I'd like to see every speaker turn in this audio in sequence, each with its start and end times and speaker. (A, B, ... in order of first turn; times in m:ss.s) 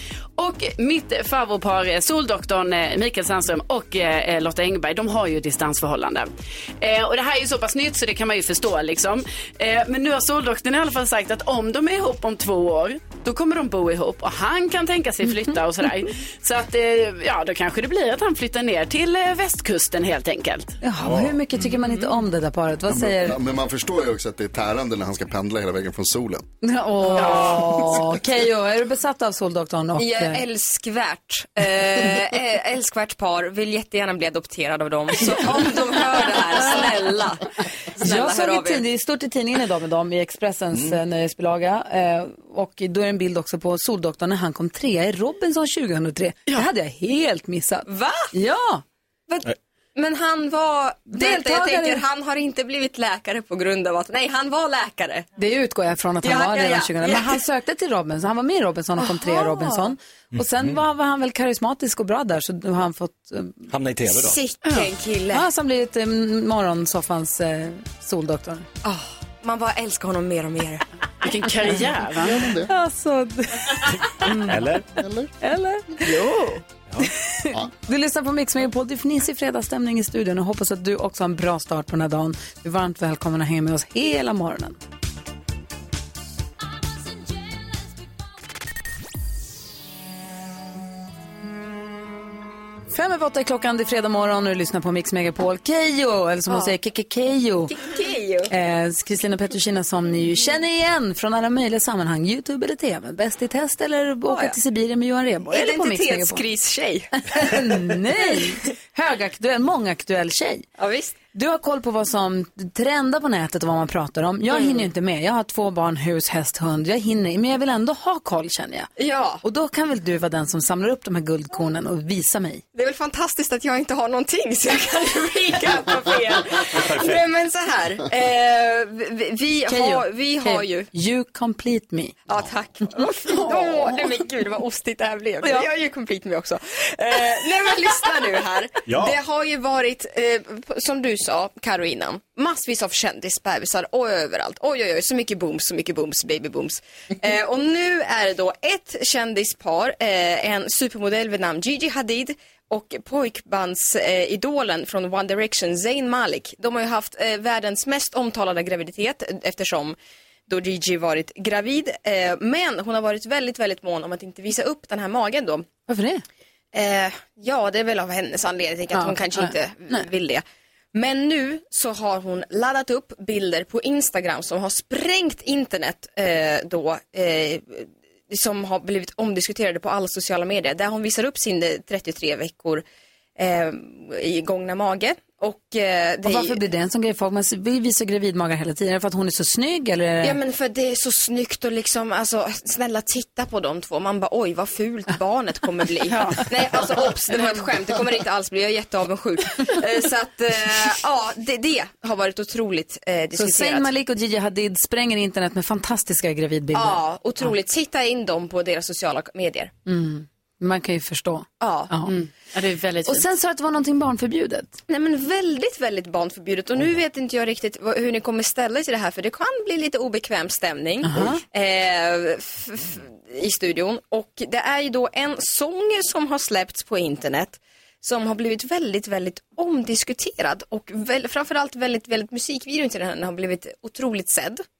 0:00.4-0:20.8 A
0:20.8-0:23.4 B
0:21.0-0:21.4 C
0:21.8-0:22.1 A
0:22.9-0:26.4 D
0:26.6-0:30.4 B
0:27.1-0:27.8 A
0:30.0-0:38.8 E
0:38.0-0:48.8 B
0:47.8-0:48.3 E
0:49.3-0:55.3 E
0:51.1-0:52.0 B
0:55.4-1:03.7 B
0:56.2-0:57.4 E
0:59.0-0:59.9 E
1:00.3-1:00.7 C
1:03.7-1:04.4 C
1:04.1-1:05.4 E
1:04.6-1:04.9 A
1:05.3-1:08.7 B
1:08.8-1:10.8 E
1:11.2-1:12.4 A
1:12.1-1:12.7 D
1:12.7-1:16.1 B
1:14.5-1:14.8 C
1:15.0-1:15.3 D
1:16.0-1:16.6 A
1:17.3-1:24.8 B
1:32.9-1:37.7 B
1:36.5-1:36.7 E
1:37.7-1:38.5 E
1:38.5-1:46.4 B
1:44.3-1:44.6 E
1:45.5-1:47.6 E
1:47.2-1:50.7 B
1:50.8-1:51.1 E
1:51.3-1:58.9 B
1:54.5-1:54.9 E
1:59.0-1:59.4 E
1:59.4-2:02.6 B
2:02.7-2:10.9 E
2:06.7-2:07.2 C
2:09.7-2:12.2 B
2:12.2-2:40.0 E
2:12.9-2:14.0 B
2:18.9-2:19.2 C
2:40.5-2:45.7 E
2:45.9-2:46.2 B
2:46.7-3:02.8 E
2:48.9-2:50.0 B
3:03.4-3:06.6 E
3:06.2-3:10.4 B
3:10.2-3:23.9 E
3:16.1-3:16.7 A
3:17.3-3:17.6 A
3:23.3-3:27.0 B
3:26.7-3:29.7 E
3:29.8-3:32.1 B
3:31.6-3:32.0 E
3:32.1-3:33.2 A
3:33.0-3:34.8 B
3:34.9-3:54.6 E
3:41.0-3:41.4 B